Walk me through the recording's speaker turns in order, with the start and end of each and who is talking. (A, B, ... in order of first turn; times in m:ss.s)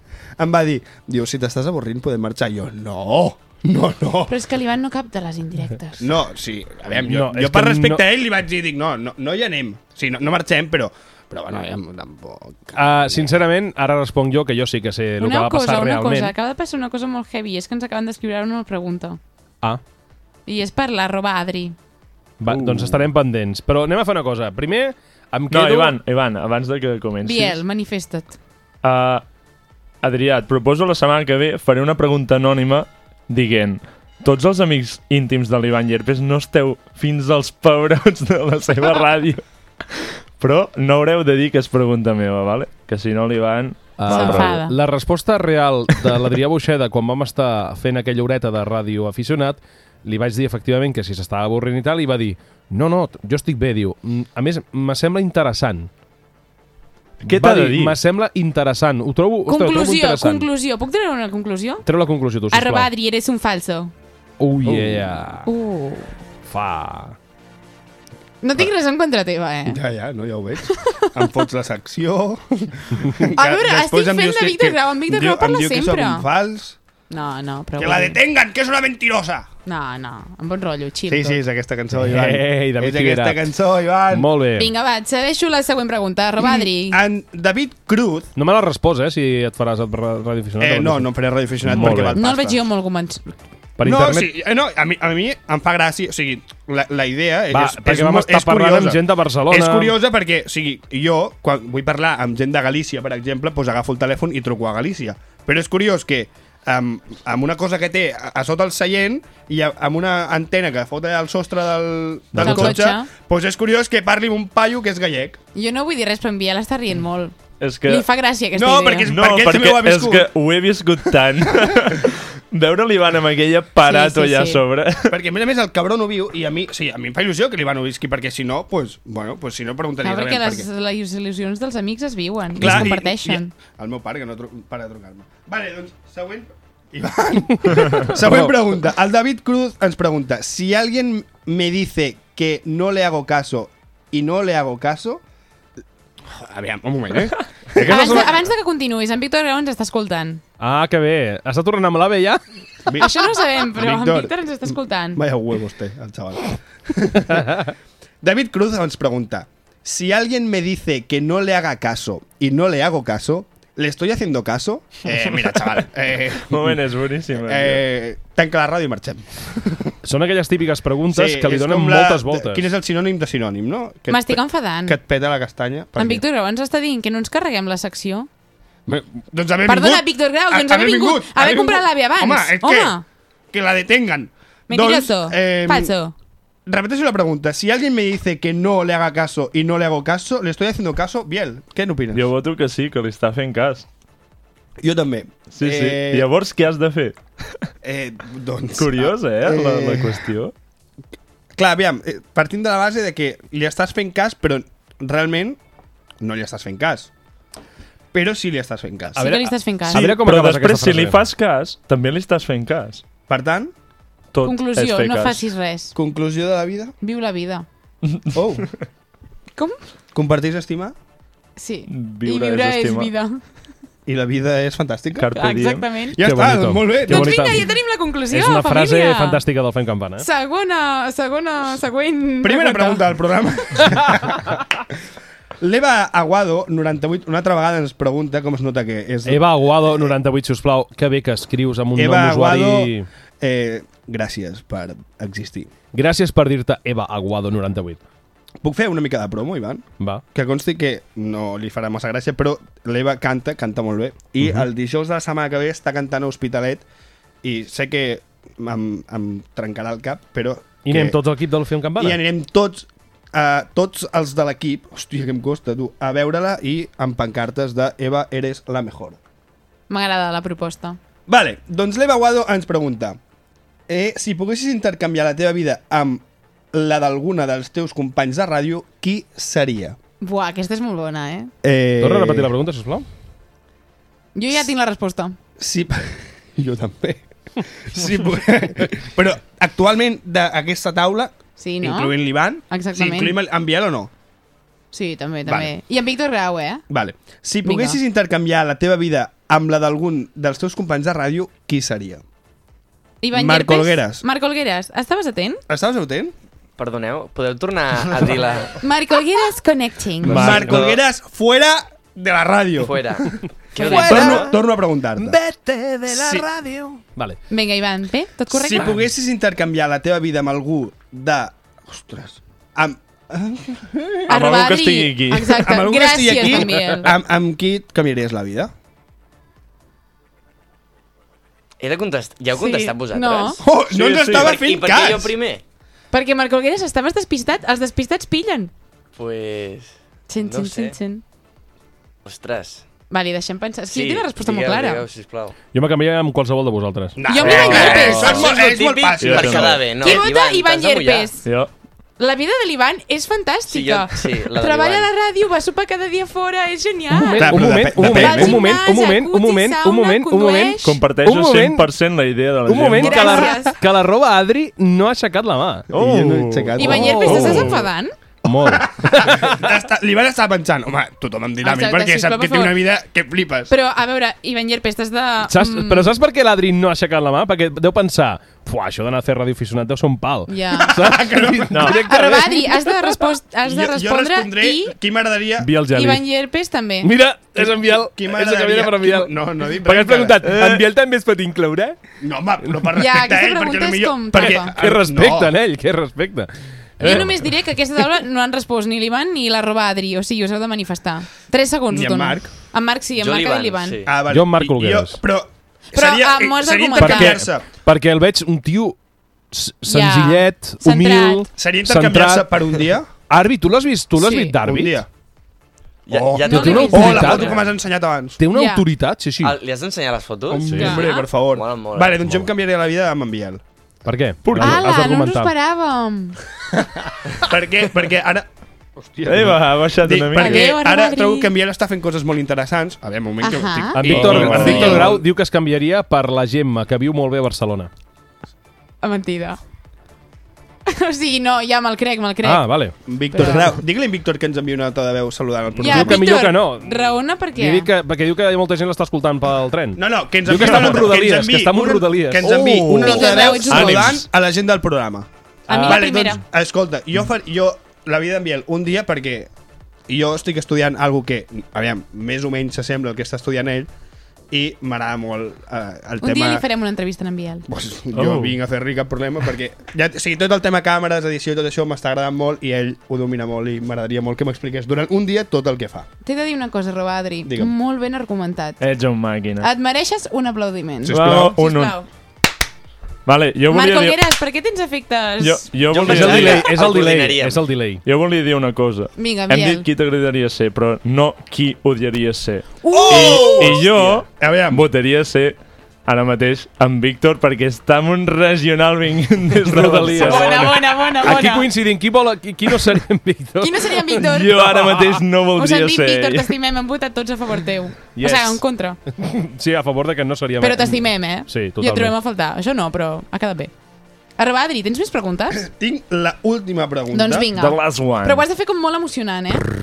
0:00.4-0:04.4 A
0:04.3-0:06.1 B
0:06.0-0:13.4 A
0:07.0-0:08.0 C
0:12.8-0:16.3 C
0:15.2-0:19.2 B
0:20.4-0:21.8 B
0:22.4-0:26.0 C
0:22.5-0:23.0 D
0:25.5-0:27.6 D
0:27.2-0:28.4 B
0:28.8-0:29.2 D
0:30.0-0:39.4 D
0:40.4-0:44.6 D
0:44.0-0:55.9 C
0:44.1-0:44.7 B
0:57.2-0:58.0 D
0:57.2-1:00.5 C
0:59.5-1:01.8 B
1:01.8-1:02.9 C
1:02.5-1:03.9 B
1:04.4-1:05.5 C
1:04.6-1:05.0 A
1:05.4-1:06.1 B
1:06.5-1:07.2 C
1:08.4-1:09.8 B
1:09.7-1:16.8 A
1:10.7-1:11.2 B
1:13.3-1:16.3 B
1:17.1-1:18.2 B
1:17.8-1:19.5 A
1:19.7-1:21.4 B
1:21.1-1:24.3 A
1:21.9-1:23.4 C
1:24.1-1:24.7 C
1:24.6-1:27.0 B
1:26.4-1:28.3 A
1:28.4-1:31.1 C
1:30.6-1:32.6 A
1:31.6-1:32.2 C
1:32.1-1:33.3 B
1:33.8-1:34.3 C
1:33.8-1:55.4 A
1:37.5-1:39.9 C
1:52.4-1:52.7 D
1:52.4-1:53.1 B
1:55.6-1:59.1 B
1:57.6-1:58.1 D
1:58.6-2:00.3 A
1:59.1-2:05.1 D
2:01.5-2:01.7 A
2:03.8-2:04.6 B
2:05.1-2:10.7 A
2:10.0-2:13.5 B
2:12.6-2:25.2 A
2:18.2-2:18.5 C
2:26.3-2:28.4 A
2:27.8-2:30.4 B
2:27.8-2:28.2 C
2:30.6-2:32.4 C
2:32.8-2:37.6 A
2:33.0-2:35.2 B
2:38.2-2:46.8 A
2:46.5-2:47.8 D
2:47.4-2:49.9 A
2:50.0-2:52.6 C
2:51.1-2:56.2 A
2:54.1-2:55.0 B
2:56.0-2:58.3 B
2:58.9-3:02.9 A
2:59.6-3:03.0 B
3:03.5-3:05.9 A
3:04.7-3:06.1 B
3:06.7-3:12.2 A
3:12.1-3:13.8 D
3:14.8-3:16.3 A
3:15.5-3:17.2 D
3:17.8-3:20.3 A
3:18.8-3:20.5 D
3:21.6-3:25.6 A
3:26.2-3:27.1 A
3:28.1-3:29.4 A
3:29.2-3:30.1 B
3:29.2-3:31.2 C
3:29.9-3:33.0 D
3:33.3-3:33.7 A
3:34.3-3:35.4 D
3:34.4-3:35.9 B
3:35.9-3:36.9 A
3:37.0-3:37.7 B
3:38.1-3:38.4 D
3:38.3-3:38.7 A
3:40.1-3:40.9 A
3:41.6-3:43.4 B
3:41.9-3:43.1 D
3:44.1-3:45.3 A
3:45.2-3:45.9 D
3:45.3-3:46.2 B
3:46.2-3:47.6 A
3:46.2-3:47.8 C
3:47.1-3:49.4 B
3:48.3-3:50.2 C
3:50.2-3:53.1 B
3:52.4-3:54.5 A
3:55.6-4:00.1 A
3:59.2-4:03.1 C
4:01.9-4:05.7 A
4:05.9-4:08.0 C
4:08.6-4:16.8 A
4:17.4-4:21.2 A
4:20.8-4:22.2 C
4:22.0-4:29.2 A
4:29.9-4:31.0 B
4:31.3-4:33.2 A
4:33.9-4:40.0 A
4:40.2-4:41.5 B
4:41.6-4:42.5 A
4:42.0-4:43.1 C
4:44.3-4:45.4 B
4:45.6-4:54.1 A
4:51.6-4:52.2 B
4:52.7-4:53.4 B
4:54.9-4:56.8 B
4:55.4-4:55.7 A
4:56.9-5:02.2 A
4:57.6-4:58.0 B
5:03.2-5:05.6 B
5:03.3-5:04.2 A
5:05.7-5:06.3 A
5:06.8-5:08.8 E
5:08.8-5:10.5 B
5:10.2-5:13.0 A
5:10.2-5:10.9 C
5:10.3-5:10.7 D
5:10.4-5:10.9 E
5:12.8-5:14.6 E
5:13.7-5:14.4 B
5:13.8-5:14.5 C
5:13.8-5:15.4 A
5:15.2-5:17.4 C
5:16.1-5:16.5 A
5:17.5-5:18.9 B
5:18.5-5:24.4 A
5:24.3-5:25.6 D
5:24.3-5:27.1 B
5:25.6-5:28.7 A
5:31.8-5:35.6 E
5:32.5-5:33.6 B
5:33.6-5:35.4 A
5:33.9-5:34.6 D
5:36.1-5:38.7 B
5:39.2-5:41.0 E
5:40.3-5:41.2 B
5:42.2-5:42.8 E
5:43.1-5:45.0 B
5:43.9-5:45.6 E
5:45.7-5:47.2 C
5:47.2-5:49.8 A
5:47.3-5:48.4 B
5:47.4-5:51.3 E
5:47.9-5:48.5 D
5:49.2-5:50.0 D
5:49.8-5:51.4 B
5:51.4-5:51.7 D
5:52.2-6:01.0 B
5:53.7-5:55.1 E
5:57.1-6:01.9 C
5:57.4-5:58.8 A
6:00.8-6:03.5 D
6:02.7-6:06.0 C
6:02.9-6:03.8 B
6:05.9-6:07.7 A
6:05.9-6:07.8 D
6:06.7-6:07.8 C
6:06.8-6:08.1 B
6:08.4-6:09.7 C
6:08.6-6:13.7 A
6:11.6-6:12.8 B
6:13.7-6:16.2 B
6:15.5-6:23.2 C
6:20.5-6:21.0 B
6:20.8-6:22.0 A
6:21.7-6:22.0 D
6:21.8-6:24.9 B
6:23.6-6:25.7 A
6:25.6-6:26.2 C
6:25.9-6:27.1 B
6:27.0-6:32.0 C
6:27.6-6:30.5 A
6:30.4-6:30.8 D
6:32.2-6:35.6 A
6:32.9-6:34.8 B
6:34.4-6:37.6 C
6:37.0-6:44.0 B
6:41.9-6:42.5 A
6:43.2-6:44.2 E
6:44.1-6:47.7 A
6:44.3-6:45.2 C
6:45.9-6:47.4 B
6:47.0-6:49.0 C
6:49.5-6:52.8 C
6:49.8-6:51.5 B
6:51.6-6:53.1 A
6:53.3-6:55.0 C
6:54.2-6:54.6 B
6:54.6-6:55.1 A
6:56.1-6:57.7 E
6:56.1-6:58.4 A
6:56.4-6:57.6 C
6:56.4-6:57.5 B
6:58.4-6:59.6 C
6:58.5-6:58.8 B
6:59.4-7:02.5 E
7:00.5-7:03.6 A
7:00.5-7:01.0 C
7:00.6-7:01.3 B
7:04.0-7:05.5 C
7:04.4-7:04.9 D
7:04.6-7:06.4 B
7:06.8-7:08.5 A
7:09.0-7:15.2 A
7:09.2-7:10.7 D
7:10.3-7:11.5 B
7:13.4-7:14.0 B
7:13.9-7:17.9 C
7:14.1-7:15.2 D
7:19.0-7:19.6 B
7:20.9-7:22.7 B
7:22.4-7:23.7 C
7:23.1-7:26.3 A
7:23.3-7:23.7 B
7:25.8-7:27.9 B
7:25.8-7:33.5 C
7:30.0-7:39.5 A
7:32.8-7:34.2 D
7:32.8-7:34.2 B
7:35.7-7:36.4 B
7:35.7-7:36.1 C
7:40.1-7:43.9 A
7:44.5-7:46.6 A
7:46.2-7:47.7 B
7:47.7-7:56.1 A
7:48.1-7:48.6 D
7:56.2-7:58.8 B
7:57.4-7:57.7 A
7:58.8-7:59.7 D
7:59.6-8:02.1 B
8:01.0-8:01.6 A
8:01.1-8:02.0 D
8:03.2-8:04.2 D
8:03.7-8:05.7 B
8:05.4-8:06.7 D
8:05.9-8:07.6 E
8:06.0-8:08.0 C
8:08.0-8:21.1 D
8:09.2-8:09.9 B
8:12.8-8:13.8 B
8:12.9-8:14.8 A
8:19.6-8:25.2 C
8:20.2-8:21.7 B
8:23.6-8:24.6 B
8:24.2-8:26.5 D
8:25.6-8:29.0 B
8:28.2-8:28.6 C
8:29.2-8:32.1 C
8:30.6-8:33.7 B
8:34.4-8:35.6 B
8:35.5-8:37.5 A
8:37.1-8:39.6 B
8:37.5-8:38.4 D